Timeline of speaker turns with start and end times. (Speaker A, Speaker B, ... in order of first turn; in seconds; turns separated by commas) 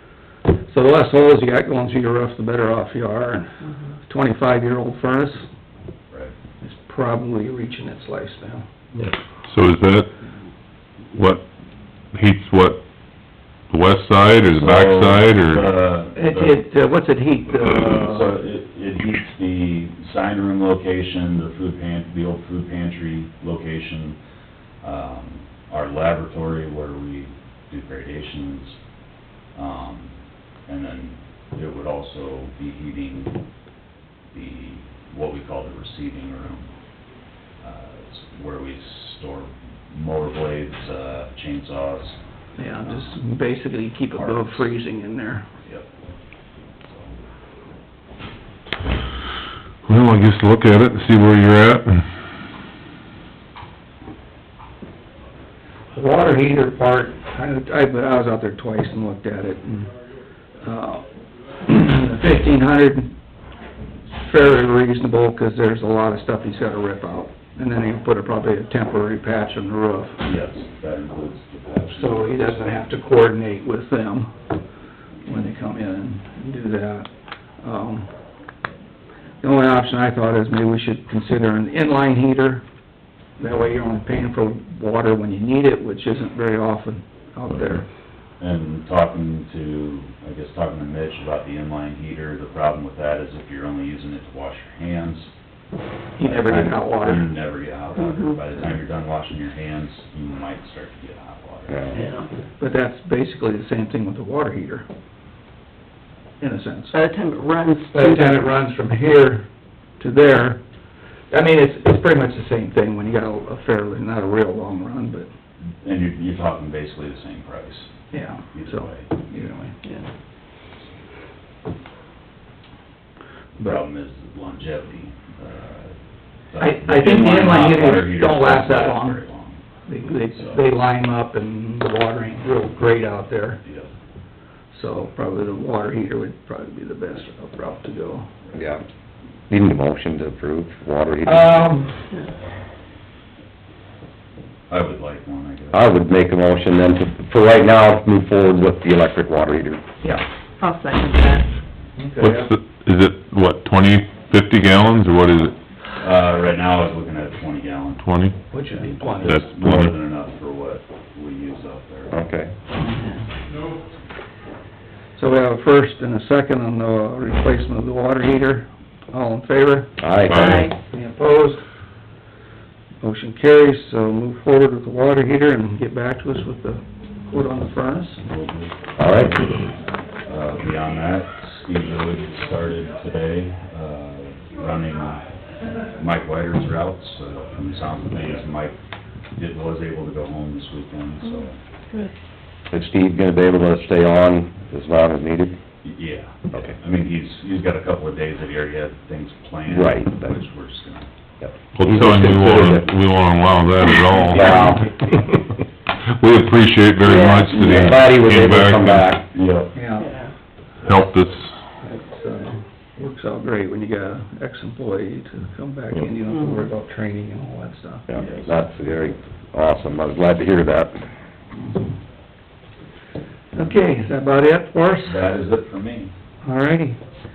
Speaker A: 0.5-5.5, Speaker A: 6.6-8.7, Speaker B: 9.4-10.1, Speaker B: 11.1-11.4, Speaker B: 12.1-12.8, Speaker B: 13.7-15.7, Speaker C: 14.5-16.6, Speaker A: 16.1-18.3, Speaker C: 17.8-24.2, Speaker C: 24.8-28.8, Speaker C: 29.5-30.1, Speaker C: 30.7-33.4, Speaker C: 34.3-36.7, Speaker C: 37.6-42.2, Speaker A: 42.6-45.5, Speaker C: 42.9-43.1, Speaker C: 44.0-44.7, Speaker C: 45.6-45.9, Speaker C: 46.8-47.1, Speaker B: 49.8-52.1, Speaker A: 55.9-59.9, Speaker A: 60.6-63.2, Speaker A: 64.1-70.2, Speaker C: 70.2-72.9, Speaker A: 71.9-74.3, Speaker A: 75.2-77.1, Speaker A: 77.6-78.1, Speaker A: 79.4-82.6, Speaker A: 83.4-87.8, Speaker C: 88.4-95.3, Speaker A: 96.2-97.3, Speaker C: 96.2-101.8, Speaker D: 98.0-98.4, Speaker E: 101.7-102.0, Speaker D: 101.9-102.3, Speaker A: 102.6-104.8, Speaker A: 106.4-107.0, Speaker D: 106.9-108.5, Speaker A: 107.9-109.5, Speaker A: 110.0-110.6, Speaker A: 111.3-115.3, Speaker C: 115.8-119.4, Speaker A: 118.1-119.8, Speaker C: 123.6-126.0, Speaker C: 126.5-129.6, Speaker A: 126.6-129.2, Speaker A: 129.8-133.6, Speaker C: 130.3-130.7, Speaker C: 133.6-133.9, Speaker A: 134.7-138.3, Speaker E: 138.5-138.8, Speaker E: 139.5-141.5, Speaker A: 141.2-142.0, Speaker C: 144.7-145.8, Speaker E: 145.7-149.8, Speaker D: 150.6-151.5, Speaker A: 151.9-152.5, Speaker B: 152.2-155.6, Speaker C: 156.0-158.0, Speaker B: 158.0-158.4, Speaker A: 158.5-159.4, Speaker C: 158.6-162.2, Speaker B: 159.2-159.9, Speaker E: 162.1-162.5, Speaker A: 165.2-169.9, Speaker E: 170.0-170.6, Speaker B: 170.3-170.7, Speaker D: 170.3-170.7, Speaker A: 170.4-171.6, Speaker A: 173.0-178.2, Speaker C: 178.2-179.4, Speaker E: 179.0-179.5, Speaker C: 180.2-185.2, Speaker C: 185.9-188.8, Speaker C: 189.3-191.6, Speaker E: 192.7-195.6, Speaker C: 195.8-201.1, Speaker E: 199.7-200.3, Speaker E: 201.4-202.9, Speaker B: 201.7-204.8, Speaker E: 204.3-204.9, Speaker B: 206.0-209.1, Speaker D: 207.1-207.4, Speaker E: 207.4-209.2, Speaker C: 209.3-209.8, Speaker A: 209.7-210.1, Speaker D: 210.0-210.3, Speaker B: 210.8-211.5, Speaker A: 211.8-218.1, Speaker D: 216.3-216.7, Speaker E: 218.1-221.1, Speaker C: 218.2-218.4, Speaker A: 221.6-221.9, Speaker A: 223.5-225.3, Speaker C: 225.0-226.1, Speaker A: 226.4-227.0